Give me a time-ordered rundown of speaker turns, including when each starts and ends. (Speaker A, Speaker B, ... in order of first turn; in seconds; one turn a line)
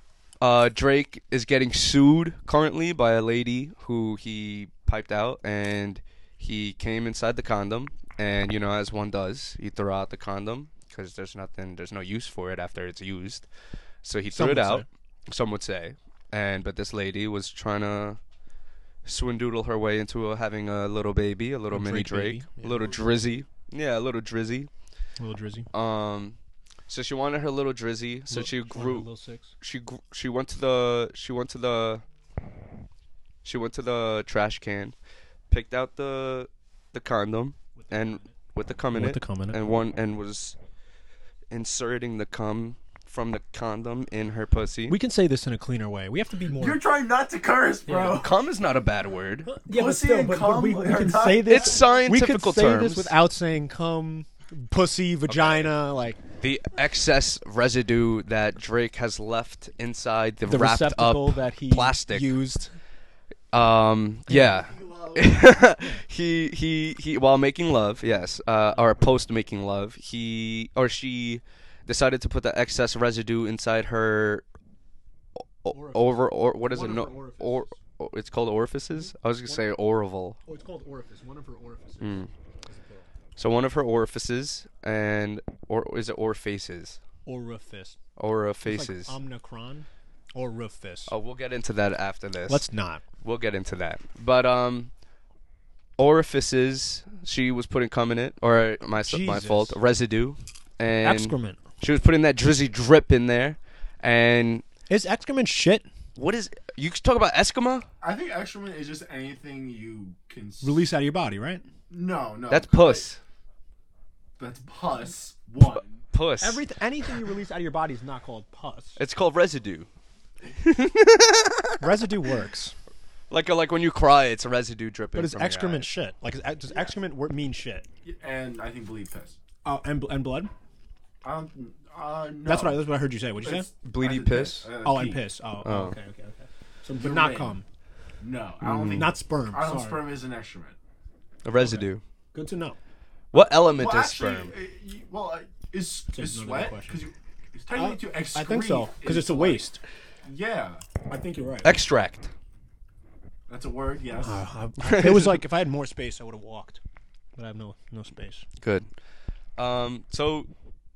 Speaker A: 0.4-13.5
Speaker A: 14.0-18.2
Speaker B: 14.3-14.8
Speaker A: 19.0-24.7
Speaker B: 21.7-23.1
Speaker B: 25.2-25.7
Speaker A: 25.7-26.4
Speaker A: 26.9-29.1
Speaker B: 28.3-29.5
Speaker A: 29.6-32.0
Speaker A: 33.4-34.9
Speaker A: 35.5-40.5
Speaker B: 37.8-38.3
Speaker B: 38.9-39.7
Speaker A: 41.5-45.0
Speaker B: 44.9-46.8
Speaker C: 46.6-48.3
Speaker B: 47.9-48.2
Speaker A: 47.9-49.5
Speaker B: 49.4-56.2
Speaker C: 49.7-51.8
Speaker A: 51.5-53.1
Speaker A: 55.3-55.7
Speaker A: 56.4-62.4
Speaker B: 60.5-62.7
Speaker A: 63.5-74.4
Speaker C: 64.3-65.5
Speaker A: 75.4-80.4
Speaker B: 75.7-77.8
Speaker B: 78.9-79.7
Speaker B: 80.5-83.1
Speaker A: 82.0-82.3
Speaker A: 83.3-87.0
Speaker B: 87.2-88.0
Speaker A: 88.2-89.1
Speaker B: 88.6-91.1
Speaker A: 91.1-92.7
Speaker B: 92.5-93.0
Speaker A: 93.2-94.9
Speaker A: 96.0-104.6
Speaker B: 99.0-99.8
Speaker B: 101.0-101.6
Speaker B: 104.9-105.9
Speaker A: 106.2-107.9
Speaker C: 108.0-110.9
Speaker B: 110.6-111.6
Speaker C: 111.9-113.1
Speaker A: 112.5-113.2
Speaker C: 114.4-116.0
Speaker A: 116.0-116.6
Speaker B: 116.4-119.0
Speaker A: 119.0-119.9
Speaker A: 120.5-121.9
Speaker B: 121.8-122.8
Speaker A: 123.3-125.9
Speaker B: 125.1-127.8
Speaker C: 128.0-129.4
Speaker B: 129.6-130.5
Speaker C: 131.2-132.9
Speaker B: 132.4-133.7
Speaker C: 133.4-135.2
Speaker A: 133.8-134.7
Speaker B: 134.8-137.6
Speaker A: 135.6-135.9
Speaker C: 137.0-137.6
Speaker C: 138.2-140.8
Speaker A: 138.6-139.1
Speaker B: 138.9-140.0
Speaker A: 141.4-142.0
Speaker B: 142.3-142.8
Speaker A: 143.3-144.5
Speaker C: 143.3-149.7
Speaker B: 146.1-147.0
Speaker B: 147.7-149.8
Speaker C: 150.2-150.8
Speaker B: 151.1-151.8
Speaker A: 151.6-152.3
Speaker C: 153.5-154.4
Speaker B: 154.2-156.8
Speaker A: 154.8-155.3
Speaker B: 157.4-158.4
Speaker A: 158.6-158.9
Speaker A: 159.6-160.5